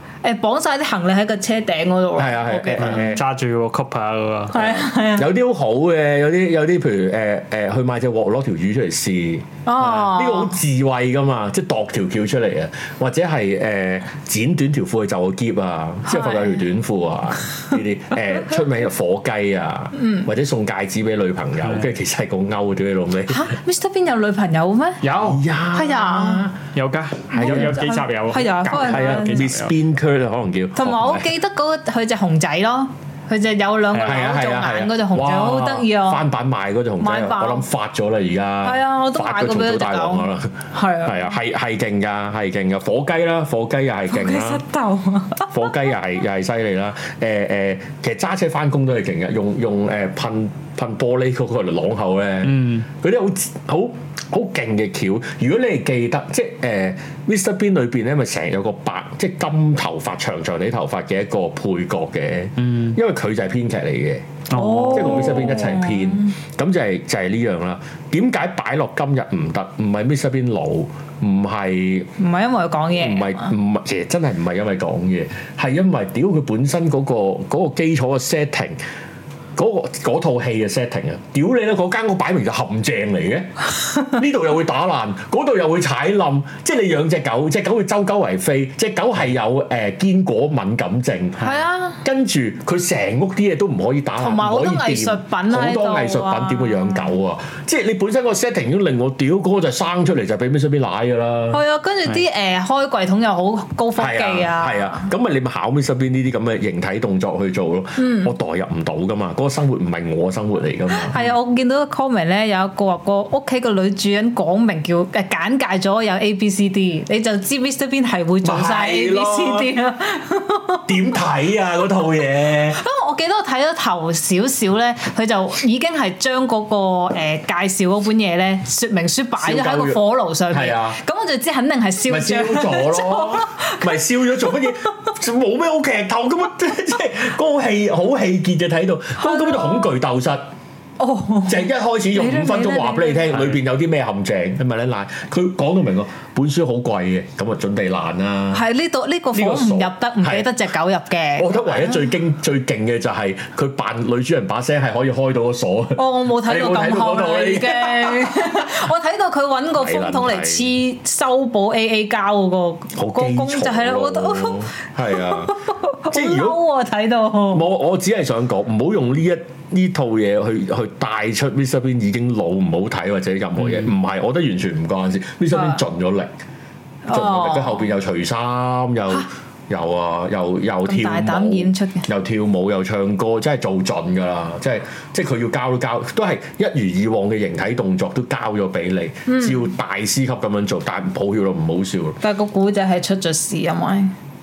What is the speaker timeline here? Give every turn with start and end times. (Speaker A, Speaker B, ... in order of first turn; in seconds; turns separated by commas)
Speaker A: 0.2-3.2, Speaker B: 2.1-3.2, Speaker C: 2.8-4.8, Speaker A: 4.5-5.3, Speaker B: 5.2-23.5, Speaker A: 9.7-10.6, Speaker A: 16.1-16.6, Speaker A: 20.0-20.3, Speaker A: 23.3-25.0, Speaker C: 25.0-25.4, Speaker B: 25.2-26.6, Speaker A: 25.7-26.5, Speaker C: 26.7-29.7, Speaker B: 27.3-27.9, Speaker A: 27.4-29.5, Speaker B: 28.6-31.3, Speaker A: 30.7-36.2, Speaker C: 33.9-34.2, Speaker B: 34.0-44.6, Speaker A: 37.0-37.6, Speaker A: 38.6-41.3, Speaker A: 44.1-45.8, Speaker B: 45.5-64.3, Speaker C: 52.4-52.9, Speaker C: 62.6-63.0, Speaker C: 64.5-65.5, Speaker A: 64.5-66.3, Speaker B: 64.9-72.1, Speaker A: 72.2-73.5, Speaker B: 72.9-78.8, Speaker B: 79.5-91.5, Speaker A: 91.4-92.0, Speaker B: 92.0-101.6, Speaker A: 94.2-97.1, Speaker A: 101.5-105.1, Speaker B: 104.0-111.1, Speaker A: 108.0-108.3, Speaker A: 110.9-120.9, Speaker B: 118.4-119.7, Speaker B: 120.9-122.8, Speaker A: 122.7-134.7, Speaker B: 129.4-131.0, Speaker B: 132.1-140.4, Speaker A: 139.2-139.9, Speaker A: 141.0-143.3, Speaker B: 141.4-148.6, Speaker A: 148.5-152.0, Speaker B: 149.3-150.5, Speaker B: 151.4-158.6, Speaker A: 155.9-167.6, Speaker B: 159.7-160.7, Speaker B: 162.9-165.5, Speaker B: 166.1-166.6, Speaker B: 167.5-176.3, Speaker C: 173.6-173.9, Speaker A: 175.5-175.8, Speaker A: 177.1-177.9, Speaker B: 177.1-192.2, Speaker A: 180.8-182.1, Speaker A: 189.3-189.7, Speaker A: 192.2-194.1